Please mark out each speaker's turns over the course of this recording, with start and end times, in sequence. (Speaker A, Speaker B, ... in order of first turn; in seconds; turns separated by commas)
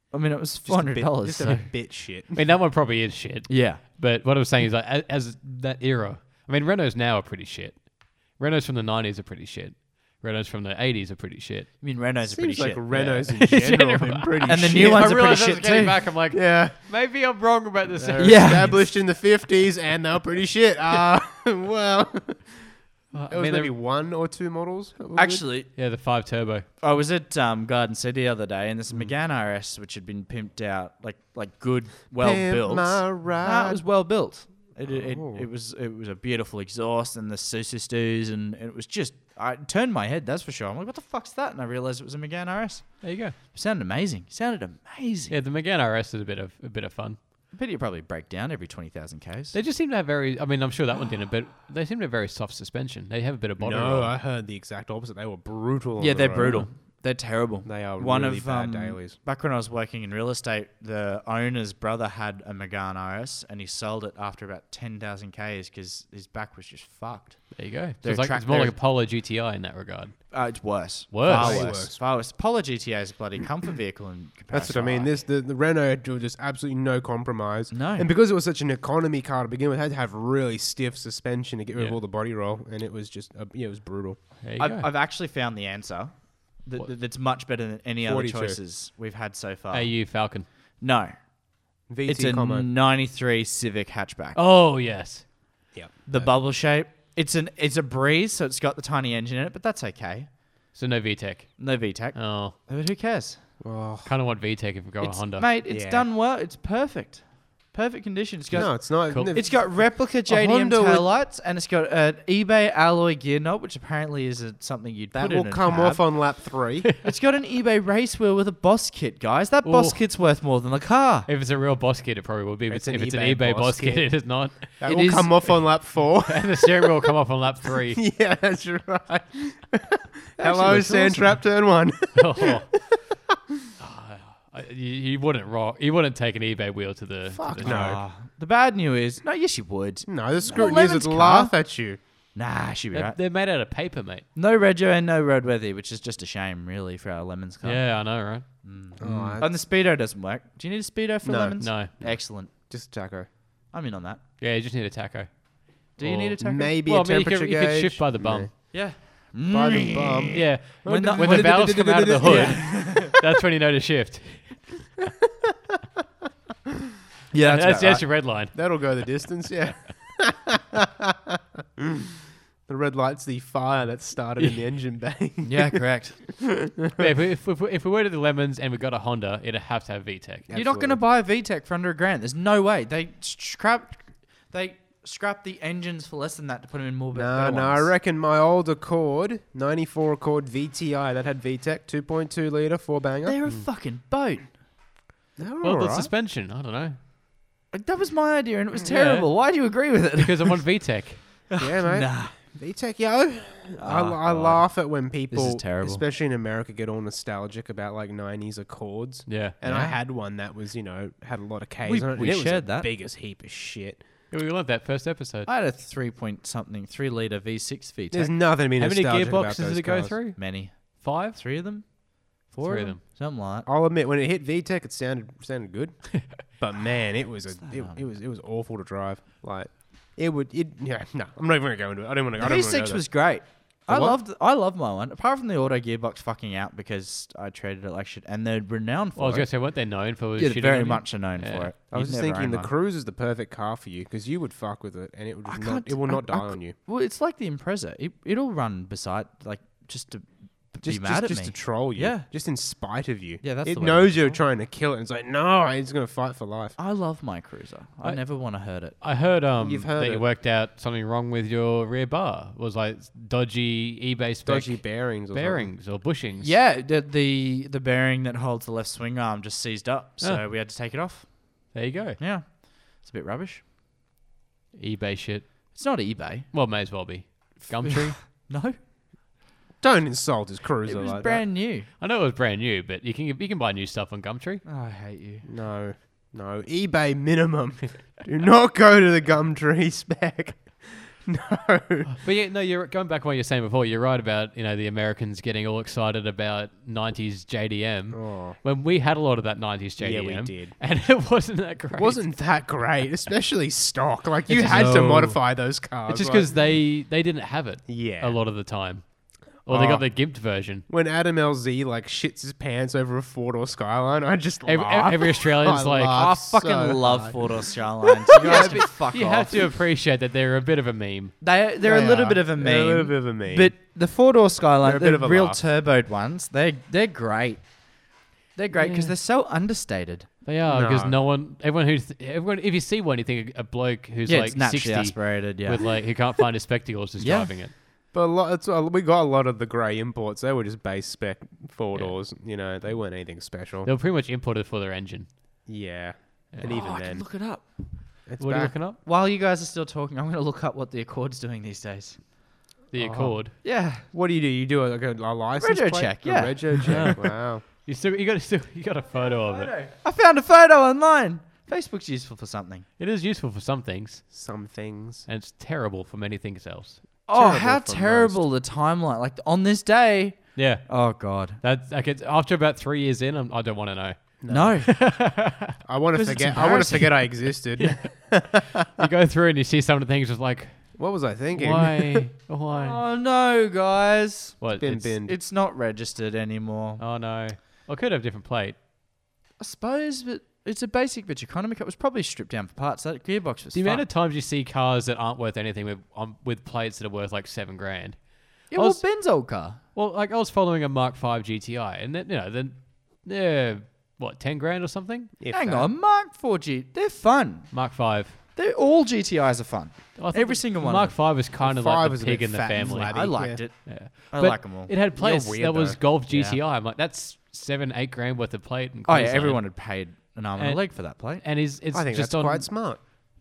Speaker A: 0.1-1.7, Speaker B: 0.6-2.4, Speaker C: 2.3-11.7, Speaker A: 3.5-3.8, Speaker A: 11.8-12.8, Speaker B: 12.2-15.4, Speaker C: 12.9-18.8, Speaker A: 14.5-16.0, Speaker B: 16.3-16.8, Speaker B: 18.0-22.7, Speaker A: 18.2-18.7, Speaker C: 23.1-23.7, Speaker B: 23.3-25.4, Speaker A: 25.1-25.7, Speaker C: 25.7-26.6, Speaker A: 26.8-45.3, Speaker B: 32.2-33.8, Speaker B: 34.8-35.5, Speaker C: 43.0-43.3, Speaker C: 45.3-47.2, Speaker A: 47.5-49.5, Speaker C: 49.5-54.1, Speaker B: 53.6-56.7, Speaker A: 56.0-68.8, Speaker B: 57.6-59.2, Speaker C: 67.5-71.8, Speaker A: 70.3-75.2, Speaker B: 71.2-72.0, Speaker B: 74.5-84.2, Speaker A: 77.7-78.1, Speaker C: 84.4-84.9, Speaker A: 84.6-90.1, Speaker B: 88.0-88.6, Speaker C: 89.7-90.5, Speaker A: 90.8-91.2, Speaker B: 91.9-92.7, Speaker A: 92.0-94.4, Speaker C: 94.3-95.2, Speaker B: 95.7-96.3, Speaker A: 96.1-100.3, Speaker C: 100.7-102.5, Speaker A: 101.6-103.4, Speaker B: 103.6-104.1, Speaker C: 104.0-105.5, Speaker A: 105.0-116.3, Speaker B: 105.7-106.1, Speaker C: 108.5-109.5, Speaker B: 108.5-111.1, Speaker B: 115.1-116.9, Speaker A: 117.0-121.3, Speaker C: 119.6-120.0, Speaker C: 121.3-125.2, Speaker B: 122.7-127.1, Speaker A: 124.9-125.5, Speaker C: 126.2-128.0, Speaker B: 127.7-133.0, Speaker A: 130.4-131.3, Speaker C: 132.2-132.7, Speaker C: 133.8-137.9, Speaker A: 137.3-141.5, Speaker B: 137.6-138.0, Speaker B: 140.1-142.0, Speaker A: 142.3-143.2, Speaker C: 142.9-144.2, Speaker A: 144.3-147.9, Speaker C: 147.6-148.5, Speaker A: 148.6-152.5, Speaker B: 149.0-149.5, Speaker B: 151.2-152.1, Speaker C: 151.6-151.9, Speaker B: 152.7-153.3, Speaker A: 153.7-154.2, Speaker C: 154.4-158.5, Speaker A: 156.0-156.7, Speaker B: 156.1-158.7, Speaker A: 158.7-161.6, Speaker B: 159.5-163.0, Speaker C: 160.3-164.6, Speaker A: 162.2-163.1, Speaker A: 167.3-168.1, Speaker C: 167.4-168.7, Speaker B: 168.5-172.0, Speaker B: 172.7-175.8, Speaker A: 175.4-176.2, Speaker C: 176.9-180.4, Speaker B: 180.5-181.0, Speaker A: 180.5-187.9, Speaker B: 187.1-193.4, Speaker A: 193.2-194.5, Speaker B: 195.4-196.1, Speaker C: 195.6-197.0, Speaker A: 197.7-200.6, Speaker C: 198.8-199.3, Speaker C: 200.2-201.2, Speaker A: 201.5-202.3, Speaker B: 201.6-214.0, Speaker A: 203.8-204.7, Speaker A: 205.3-206.0, Speaker C: 209.3-209.6, Speaker A: 209.6-210.0, Speaker A: 211.8-212.9, Speaker C: 214.3-215.5, Speaker A: 215.4-218.3, Speaker B: 218.1-220.2, Speaker C: 218.8-221.4, Speaker A: 220.3-223.7, Speaker C: 222.6-223.0, Speaker B: 223.6-233.3, Speaker A: 227.6-228.0, Speaker A: 232.4-239.5, Speaker B: 233.9-234.2, Speaker C: 239.2-241.7, Speaker A: 240.4-242.7, Speaker B: 241.9-246.8, Speaker A: 245.5-252.3, Speaker B: 250.8-256.8, Speaker A: 253.4-254.4, Speaker A: 256.8-258.9, Speaker C: 259.0-266.5, Speaker B: 259.6-260.2, Speaker B: 264.4-265.7, Speaker A: 266.4-271.4, Speaker C: 271.7-272.2, Speaker A: 272.2-273.6, Speaker C: 274.8-275.7, Speaker A: 275.7-276.5, Speaker C: 276.5-278.2, Speaker A: 277.7-278.8, Speaker B: 279.8-281.4, Speaker A: 280.8-281.9, Speaker C: 282.0-284.6, Speaker A: 284.6-285.4, Speaker B: 285.4-292.1, Speaker C: 292.1-302.2, Speaker B: 298.1-298.6, Speaker B: 300.0-300.8, Speaker B: 302.0-306.5, Speaker C: 304.5-305.5, Speaker C: 306.1-309.1, Speaker B: 307.9-308.4, Speaker C: 309.6-310.8, Speaker B: 309.7-310.1, Speaker B: 310.9-318.9, Speaker C: 314.6-316.3, Speaker A: 316.1-319.6, Speaker C: 318.4-321.3, Speaker A: 321.4-327.7, Speaker B: 321.8-323.7, Speaker B: 324.8-325.6, Speaker A: 328.5-330.3, Speaker C: 328.8-329.1, Speaker C: 330.4-337.7, Speaker B: 330.7-331.1, Speaker A: 334.2-336.0, Speaker A: 337.2-337.5, Speaker B: 338.1-343.9, Speaker C: 341.9-342.2, Speaker C: 343.8-345.3, Speaker B: 345.7-347.3, Speaker A: 346.6-347.7, Speaker B: 348.3-348.7, Speaker C: 348.4-349.0, Speaker A: 349.0-352.2, Speaker C: 352.9-353.5, Speaker B: 353.0-357.6, Speaker A: 353.6-354.0, Speaker A: 355.6-357.2, Speaker C: 356.9-359.7, Speaker A: 359.3-362.9, Speaker C: 363.0-364.2, Speaker B: 364.3-365.3, Speaker C: 365.3-367.1, Speaker A: 367.3-371.6, Speaker B: 367.3-368.4, Speaker C: 370.6-375.8, Speaker B: 374.4-374.8, Speaker A: 374.5-374.9, Speaker B: 375.8-378.9, Speaker A: 376.1-377.2, Speaker C: 377.8-383.0, Speaker B: 380.9-382.3, Speaker A: 382.7-384.6, Speaker C: 384.6-385.1, Speaker B: 384.8-385.4, Speaker A: 385.2-387.0, Speaker C: 387.0-388.8, Speaker A: 389.6-394.0, Speaker C: 393.7-399.0, Speaker A: 398.7-399.8, Speaker C: 399.9-405.3, Speaker B: 405.4-405.9, Speaker A: 405.5-407.7, Speaker C: 407.7-408.4, Speaker A: 408.5-411.1, Speaker C: 410.1-419.7, Speaker B: 411.6-413.6, Speaker A: 413.0-414.9, Speaker B: 415.1-416.0, Speaker A: 416.3-416.6, Speaker A: 419.1-421.4, Speaker C: 420.6-423.1, Speaker B: 421.9-423.0